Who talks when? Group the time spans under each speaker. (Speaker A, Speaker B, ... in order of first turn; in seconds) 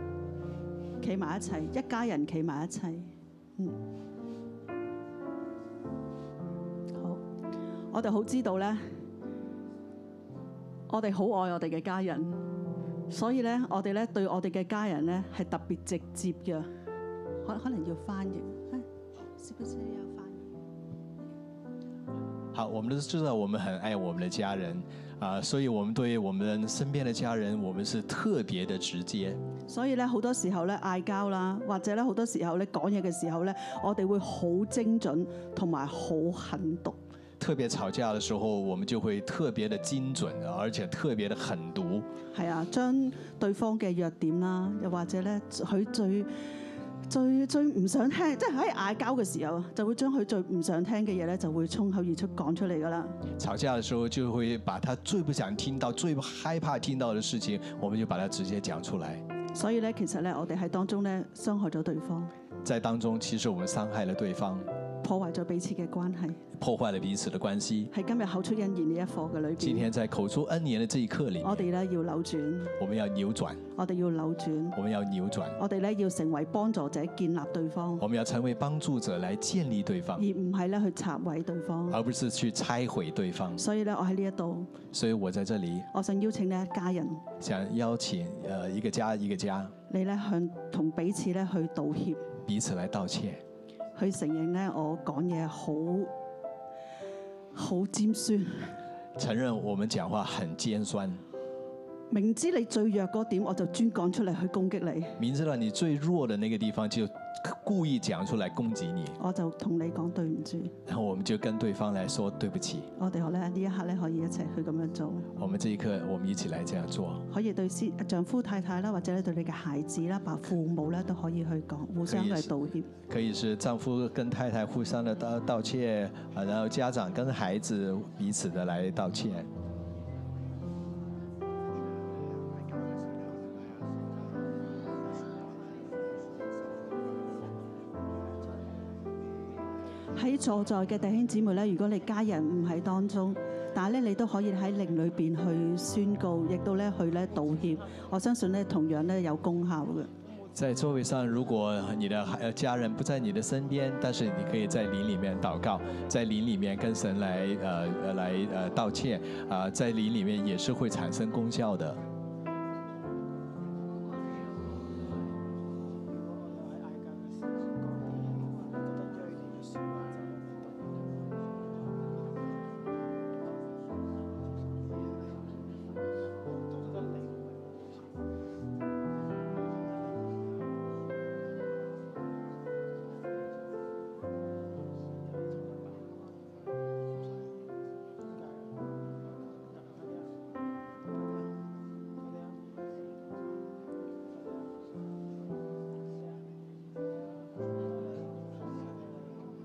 Speaker A: 1.0-3.8, 6.9-7.2, 7.9-8.8, 10.9-12.4, 13.1-16.7, 17.4-18.9, 19.4-20.5, 29.7-37.0, 42.3-46.3, 47.1-53.1, 59.5-62.3, 65.0-66.4, 67.9-69.9, 71.4-72.7, 73.7-74.8, 75.6-78.0, 80.2-82.0, 83.6-84.8, 85.9-87.3, 89.9-92.2, 94.0-96.1, 97.5-98.7, 102.1-105.2, 109.2-110.7, 113.0-115.3, 117.3-122.9, 140.2-150.1
Speaker B: 22.5-29.4, 37.4-42.1, 53.4-59.2, 62.6-64.7, 66.6-67.9, 69.6-71.7, 72.8-73.6, 74.7-75.6, 78.0-80.2, 81.9-83.6, 84.9-85.9, 87.4-89.7, 92.5-93.4, 99.2-101.2, 105.2-109.2, 110.8-112.9, 115.4-117.2, 122.0-122.5, 123.1-129.5, 150.5-162.0